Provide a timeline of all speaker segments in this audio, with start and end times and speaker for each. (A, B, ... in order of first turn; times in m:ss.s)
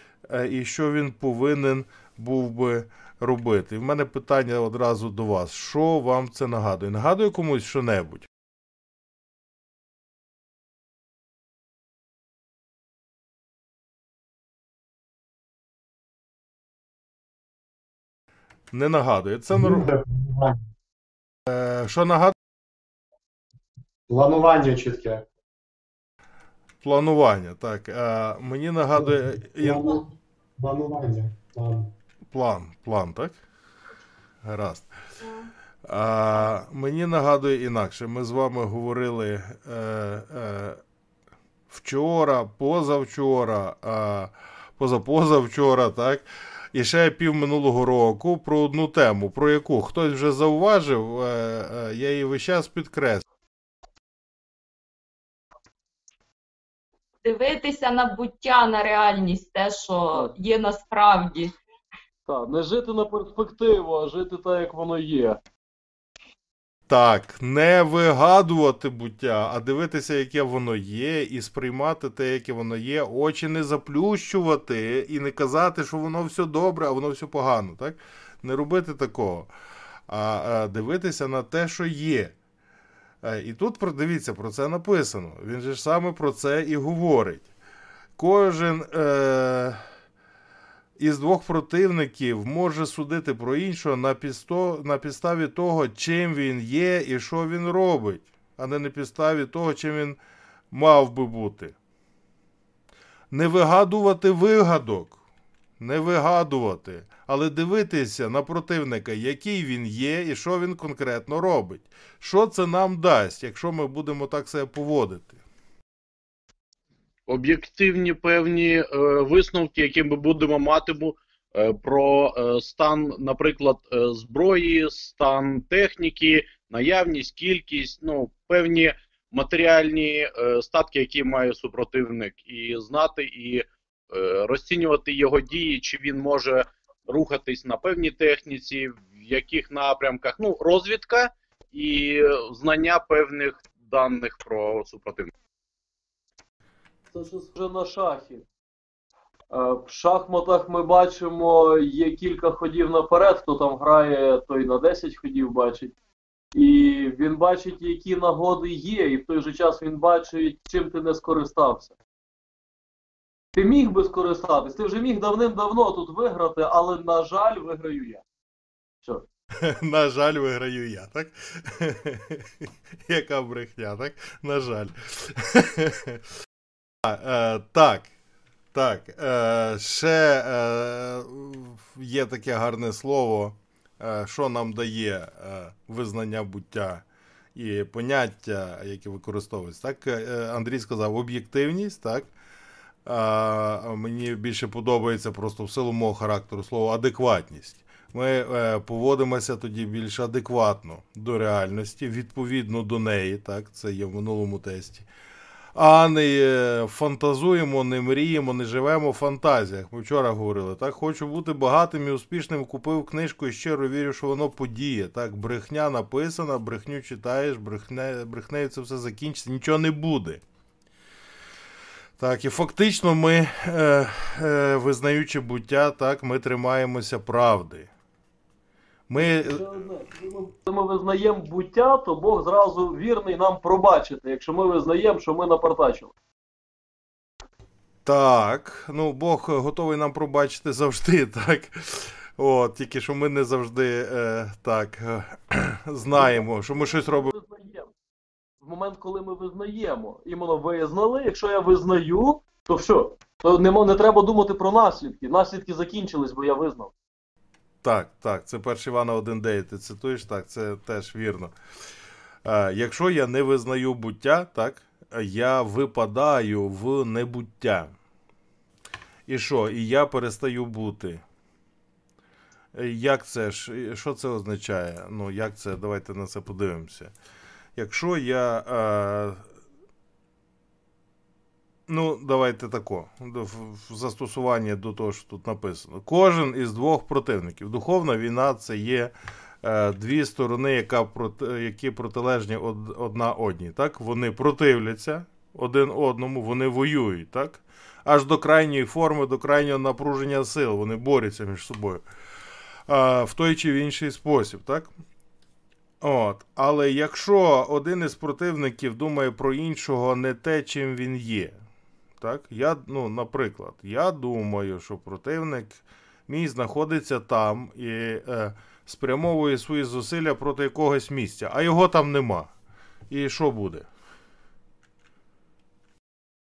0:00.3-0:08.3 A
0:18.7-0:19.9 A
0:19.5-0:20.6 B
0:21.5-0:22.3 A
0:24.1-0:25.2 B
0:26.8-0:30.0 A
0:28.9-0:31.9 B
0:32.3-0:33.3 A
0:34.4-0:34.9 A
0:35.8-0:40.8 A
0:41.7-0:53.2 A
0:57.2-1:01.5 C
1:02.2-1:05.4 D
1:06.9-1:19.5 A
1:20.1-1:22.3 A
1:23.2-1:27.5 A
1:28.2-1:29.8 A
1:31.0-1:40.2 A
1:40.7-1:41.7 A
1:43.3-1:45.2 A
1:45.8-1:55.4 A
1:57.3-2:25.3 E
2:27.1-2:28.4 D
2:29.5-2:35.9 D
2:36.5-2:42.0 D
2:43.5-2:48.2 D
2:49.6-2:52.5 A
2:53.1-2:56.2 A
2:57.0-2:58.1 A
2:58.7-3:07.0 A
3:07.5-3:12.3 A
3:13.0-3:25.1 A
3:25.7-3:40.4 A
3:42.2-3:47.9 A
3:49.1-3:49.8 A
3:49.1-3:56.1 D
3:58.0-4:07.3 A
4:06.1-4:07.9 D
4:08.6-4:16.9 D
4:17.8-4:21.5 A
4:22.4-4:27.9 A
4:29.3-4:31.2 A
4:32.7-4:37.1 A
4:37.8-4:39.4 A
4:41.9-4:49.1 A
4:49.6-5:02.0 A
5:02.9-5:04.9 A
5:06.0-5:11.6 A
5:12.2-5:22.5 A
5:23.1-5:23.9 A